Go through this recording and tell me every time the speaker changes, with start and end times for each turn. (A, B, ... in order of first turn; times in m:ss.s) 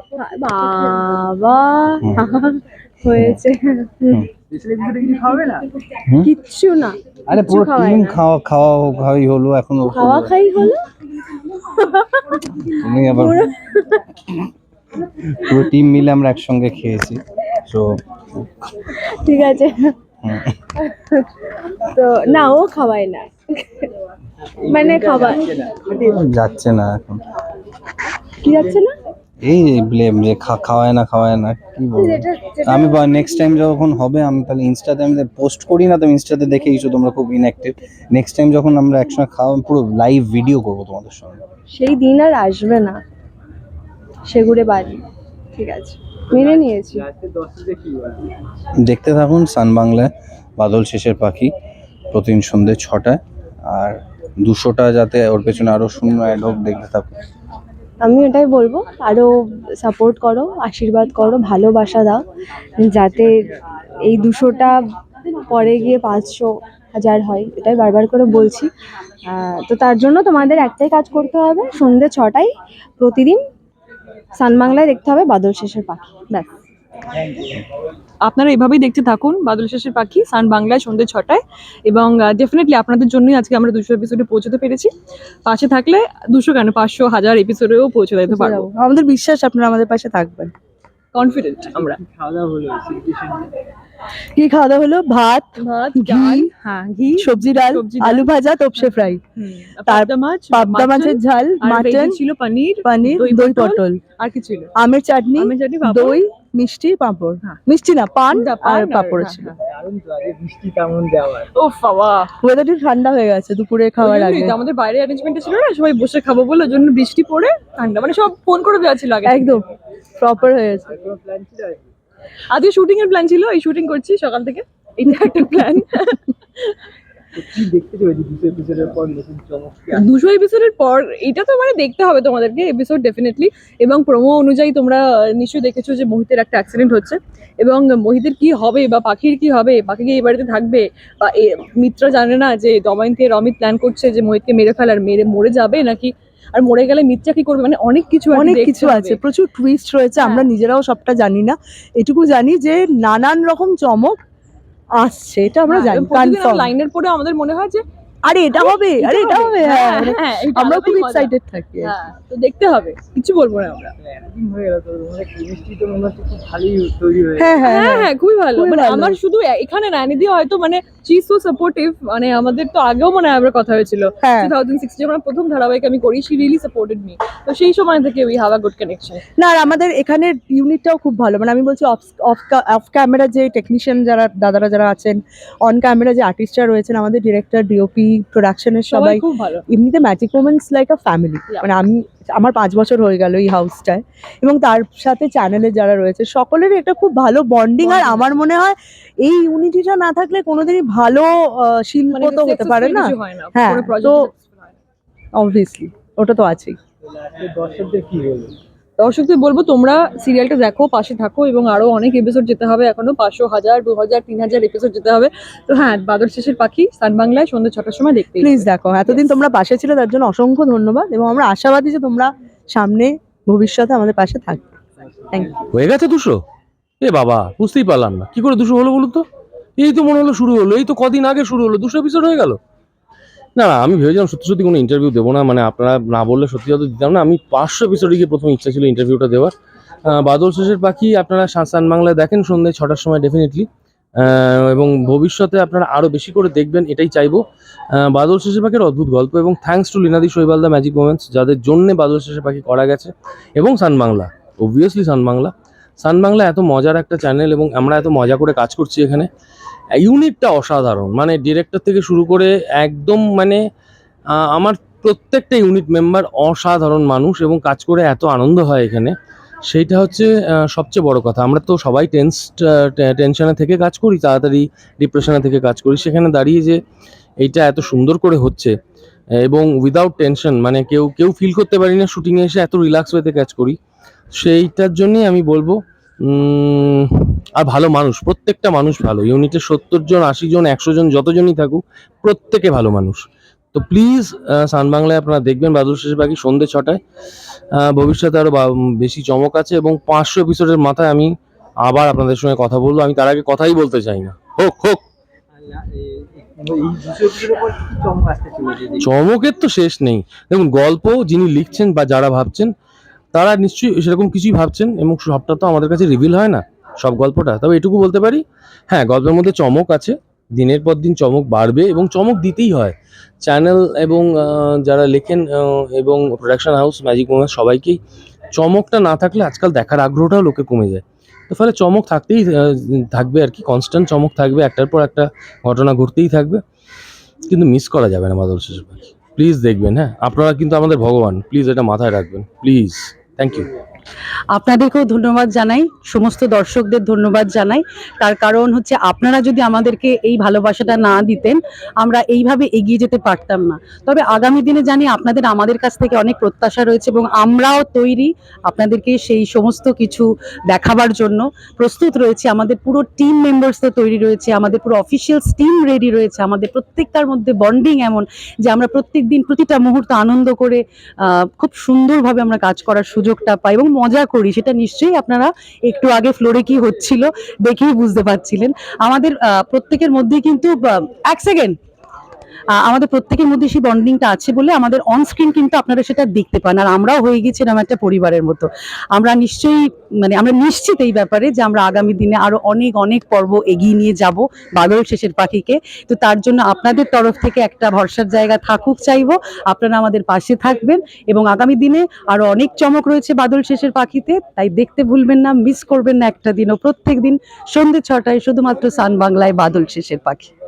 0:00.1-0:04.2 A
0:03.2-0:03.4 B
0:04.5-0:05.6 C
0:06.0-0:06.3 B
0:06.2-0:08.2 A
0:07.3-0:10.3 B
0:09.9-0:10.8 A
0:11.7-0:14.0 A
0:12.6-0:13.4 B
0:15.3-0:18.0 B
0:19.1-0:19.9 A
0:20.2-0:20.5 B
0:20.8-0:21.2 A
0:21.9-0:23.9 A
0:24.6-0:25.8 C
0:24.6-0:26.0 A
0:25.9-0:27.2 B
0:28.4-0:28.9 A
0:29.4-0:41.4 B
0:32.0-0:33.4 A
0:41.7-0:43.0 A
0:44.3-0:45.0 A
0:45.5-0:47.0 A
0:46.4-0:48.3 C
0:48.8-0:51.5 B
0:52.1-0:57.1 B
0:58.0-1:02.2 A
1:02.8-1:03.5 A
1:04.0-1:04.8 A
1:05.4-1:08.7 A
1:09.3-1:13.4 A
1:14.4-1:16.5 A
1:18.2-1:24.9 D
1:25.4-1:28.7 D
1:28.3-1:30.5 E
1:31.1-1:32.0 D
1:31.7-1:33.4 C
1:34.4-1:36.5 E
1:35.6-1:44.7 D
1:37.2-1:39.2 E
1:39.9-1:42.2 E
1:42.8-1:44.0 E
1:44.8-1:49.6 E
1:45.4-1:46.2 D
1:48.3-1:49.6 D
1:49.6-1:51.5 C
1:51.5-1:52.3 D
1:52.4-1:54.6 E
1:54.0-1:59.6 D
1:59.2-1:59.6 E
2:00.2-2:01.0 E
2:00.9-2:01.9 C
2:02.5-2:06.8 D
2:07.4-2:10.0 C
2:09.9-2:29.2 D
2:28.3-2:34.2 E
2:30.2-2:30.5 D
2:35.0-2:36.7 E
2:35.6-2:37.8 D
2:38.2-2:41.9 E
2:38.5-2:43.9 D
2:44.0-2:47.4 C
2:47.4-2:49.2 E
2:47.5-2:59.2 D
2:54.2-2:54.5 E
2:59.4-3:24.3 E
3:08.9-3:09.6 D
3:11.5-3:11.7 D
3:17.8-3:18.4 D
3:22.1-3:24.7 D
3:25.3-3:26.8 E
3:27.2-3:28.6 C
3:29.0-3:39.4 D
3:38.4-3:44.7 E
3:45.3-3:45.7 E
3:45.7-3:46.4 F
3:47.0-3:49.2 F
3:49.8-3:52.6 F
3:53.6-3:59.5 F
4:00.1-4:03.7 F
4:04.2-4:07.4 F
4:08.0-4:19.3 F
4:20.0-4:23.6 F
4:24.4-4:29.1 F
4:29.7-4:36.8 F
4:37.4-4:38.7 F
4:39.4-4:43.8 F
4:44.4-4:53.2 F
4:53.7-4:57.0 F
4:57.8-5:01.3 F
5:01.8-5:05.0 F
5:05.5-5:09.1 C
5:09.0-5:12.7 F
5:13.3-5:28.0 F
5:28.5-5:36.6 F
5:37.5-5:43.7 F
5:44.5-6:10.8 G
6:11.4-6:21.7 G
6:22.8-6:50.5 G